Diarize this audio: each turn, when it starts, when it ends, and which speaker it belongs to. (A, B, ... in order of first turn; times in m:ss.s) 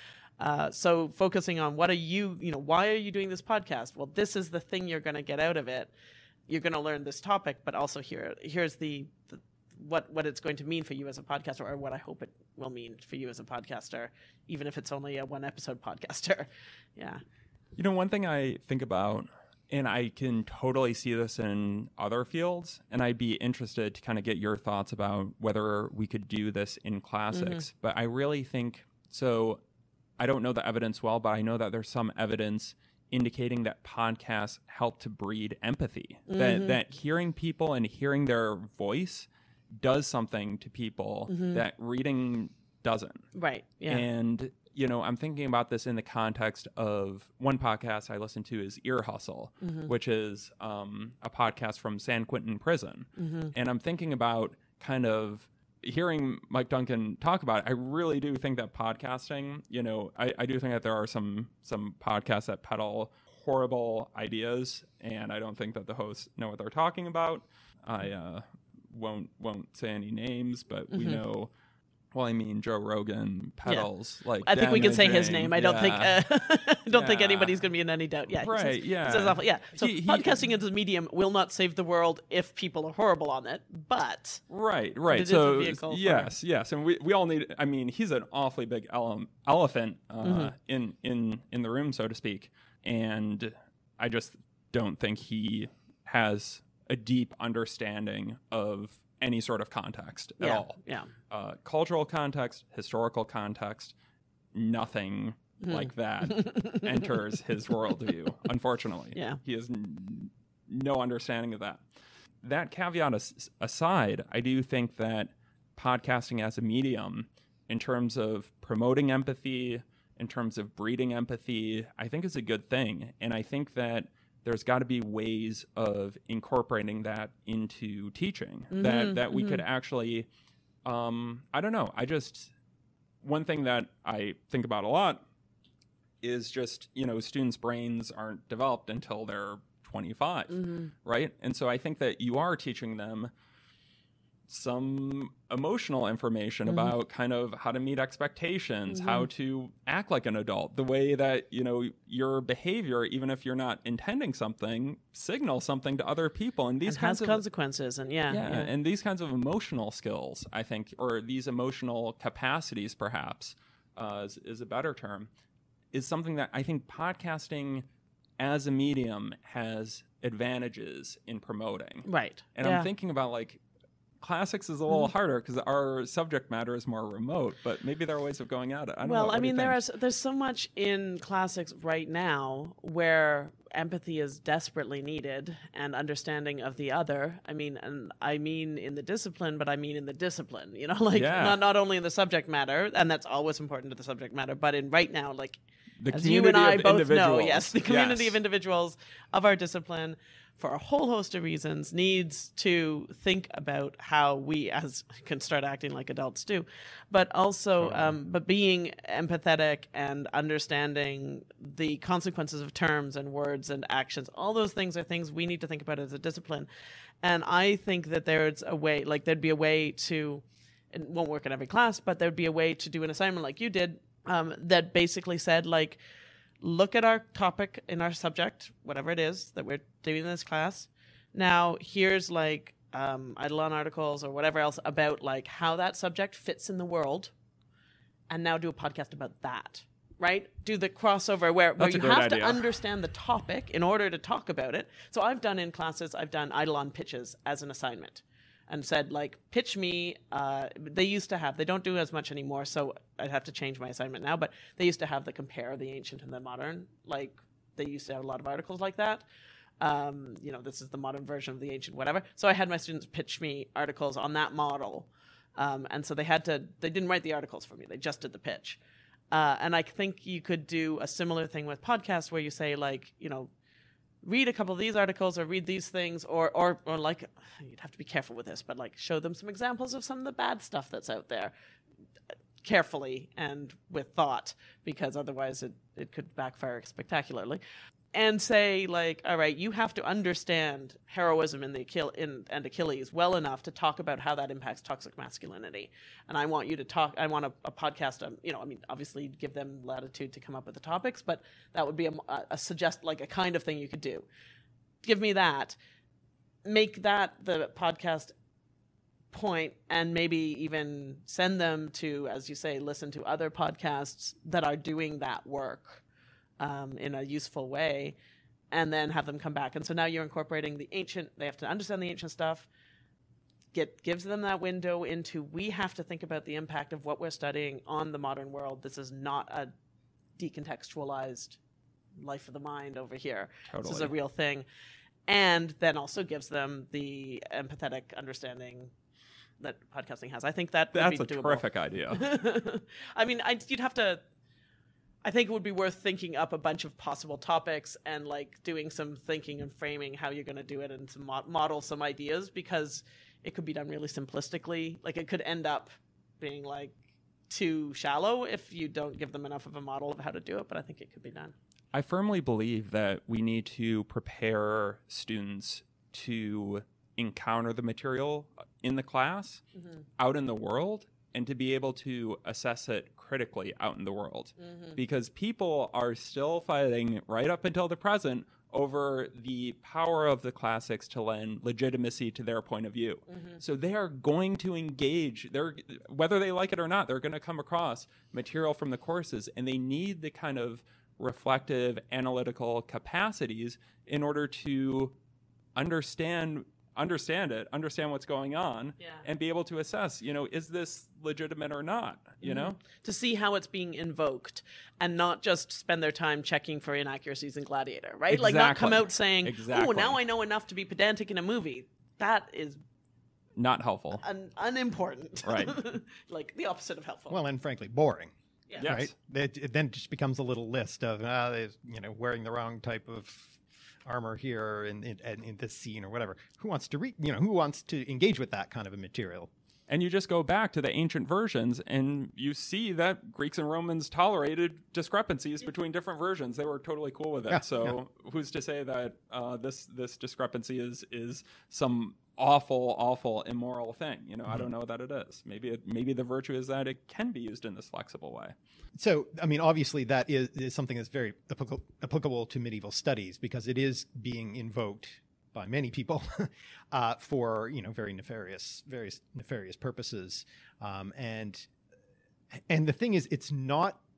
0:00.4-0:05.9 A
0:06.5-0:17.2 A
0:17.8-0:29.6 B
0:27.3-0:27.6 A
0:30.2-0:39.3 B
0:36.3-0:36.8 A
0:39.8-0:43.3 B
0:41.3-0:41.6 A
0:43.3-0:44.0 A
0:43.9-1:11.5 B
0:49.6-0:49.9 A
0:53.2-0:53.5 A
1:10.9-1:11.2 A
1:12.1-1:16.2 B
1:14.4-1:24.4 A
1:16.9-1:17.6 B
1:18.4-1:20.4 B
1:24.5-1:43.9 B
1:25.1-1:26.3 A
1:30.2-1:30.5 A
1:40.4-1:41.1 A
1:44.5-1:51.8 B
1:45.6-1:47.2 A
1:52.4-2:10.3 B
2:08.7-2:09.6 A
2:10.8-2:12.5 B
2:13.2-2:15.2 B
2:16.2-2:23.3 B
2:20.5-2:20.9 A
2:24.5-2:37.4 B
2:26.7-2:26.9 A
2:28.9-2:29.3 A
2:36.8-2:38.7 A
2:38.3-2:45.3 B
2:45.9-2:47.8 B
2:48.4-2:53.6 B
2:52.0-2:52.9 A
2:54.2-2:59.8 B
2:59.0-3:15.6 A
3:11.1-3:11.6 B
3:16.0-3:18.4 B
3:16.1-3:36.7 A
3:27.8-3:28.1 B
3:37.2-3:46.0 A
3:46.6-3:57.3 A
3:58.3-4:19.2 A
4:01.8-4:02.6 B
4:19.8-4:28.8 A
4:29.3-4:33.5 A
4:34.2-4:41.5 A
4:42.6-4:47.6 A
4:48.1-5:04.2 A
5:05.0-5:05.8 A
5:06.6-5:08.3 A
5:09.3-5:16.0 A
5:16.6-5:18.1 A
5:18.7-5:22.7 A
5:23.7-5:29.7 A
5:30.4-5:31.6 A
5:32.2-5:34.6 A
5:33.7-5:34.1 B
5:35.3-5:38.9 A
5:39.6-5:44.2 A
5:40.9-5:42.2 B
5:45.2-5:56.9 A
5:57.5-6:01.5 A
6:01.9-6:09.6 B
6:10.2-6:35.1 B
6:23.3-6:23.6 A
6:35.8-6:42.8 B
6:42.4-6:52.8 A
6:48.3-6:50.2 B
6:53.6-6:54.2 B
6:54.2-6:57.4 A
6:55.4-6:55.8 B
6:57.3-7:09.5 C
6:58.8-6:59.1 B
7:09.9-7:28.5 B
7:17.5-7:17.9 C
7:28.9-7:41.7 C
7:42.7-7:44.0 C